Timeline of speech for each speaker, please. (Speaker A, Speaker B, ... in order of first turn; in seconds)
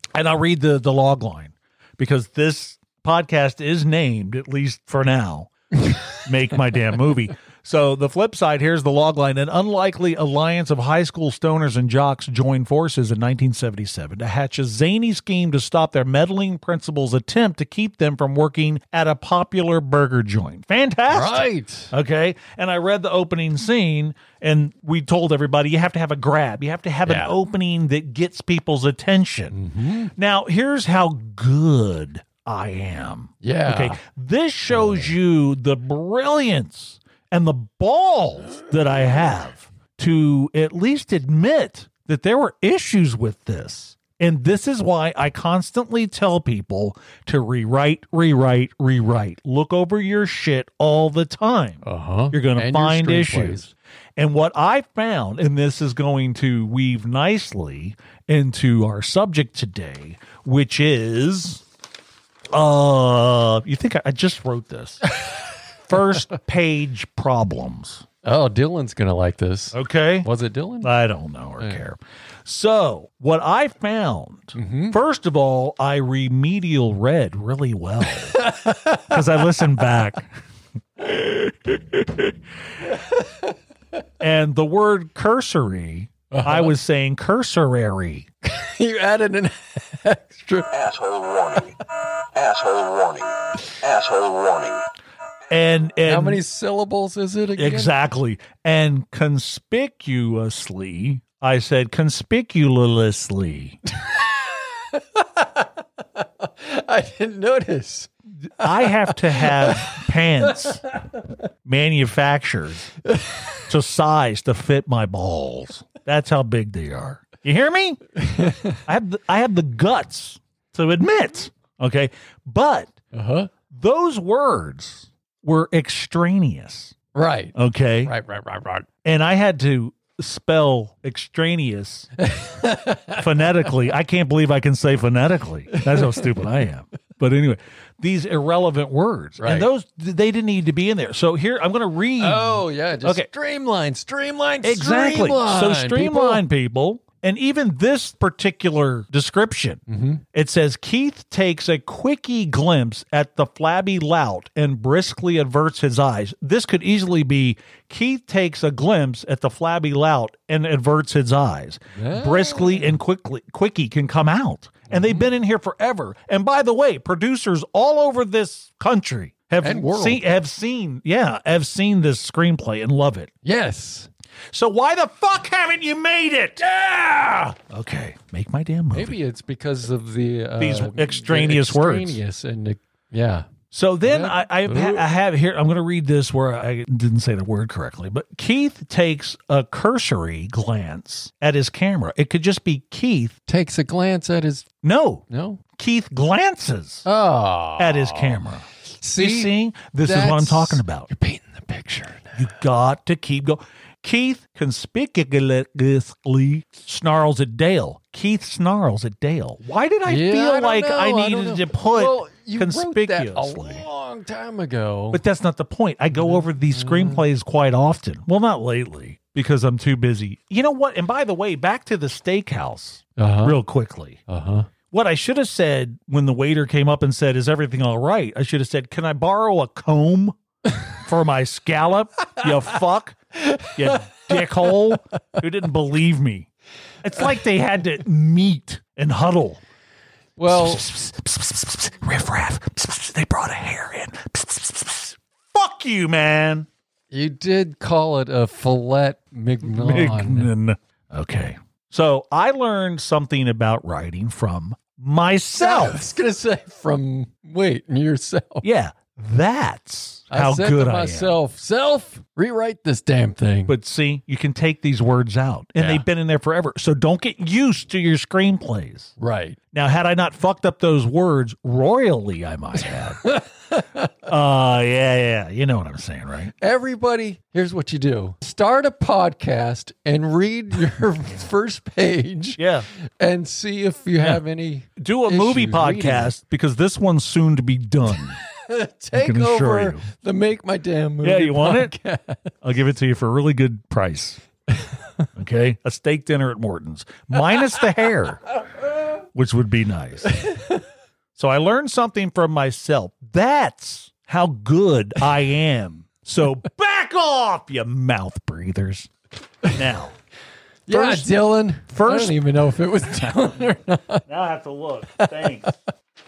Speaker A: 0.1-29.6, 30.1-61.6, 62.5-65.3, 65.8-68.0, 69.7-70.3, 70.8-80.3, 81.0-82.3, 84.2-88.3, 95.5-96.4, 97.5-103.8, 108.4-110.8, 111.6-112.8, 113.7-122.9, 123.7-126.9, 127.5-128.1, 129.0-132.1, 133.2-143.3, 144.6-149.8, 150.3-173.3, 174.5-176.6, 177.7-179.1, 180.6-182.2, 183.7-193.3, 194.8-197.0, 197.8-201.1, 202.3-213.8, 215.1-224.2, 224.9-230.4, 230.9-236.5, 237.0-239.6, 240.5-246.7, 249.6-256.0, 258.6-261.4, 263.7-269.1, 269.7-273.2, 274.2-276.5, 282.6-282.9, 285.0-288.4, 289.1-290.0, 291.2-291.9, 292.6-294.4, 295.4-298.4, 299.3-300.4, 301.3-309.1, 309.6-310.1, 310.9-311.3, 311.9-312.4, 314.3-315.7
Speaker B: 21.1-21.9, 27.0-27.3, 29.5-30.1, 33.4-34.0, 34.8-35.1, 51.8-53.7, 68.2-70.9, 74.5-75.0, 78.3-79.2, 82.9-83.5, 86.3-86.7, 88.4-90.7, 96.0-97.9, 104.0-111.2, 113.0-113.6, 118.2-118.8, 123.1-123.5, 127.1-128.9, 132.2-133.2, 135.7-136.3, 139.4-139.7, 142.2-146.4, 149.9-150.2, 161.9-163.0, 164.9-165.3, 169.6-170.2, 173.4-174.1, 176.6-177.6, 178.9-183.5, 184.0-185.1, 193.5-194.7, 195.3-195.6, 197.0-198.4, 199.0-202.4, 210.1-215.2, 216.1-217.2, 223.2-223.6, 224.3-224.7, 233.3-234.4, 240.4-240.8, 247.1-250.5, 255.6-258.6, 260.3-263.7, 265.8-266.0, 269.2-269.6, 273.2-274.1, 276.6-286.3, 288.6-292.5, 300.4-300.8, 310.9-314.2, 315.2-315.7
Speaker C: 90.7-94.8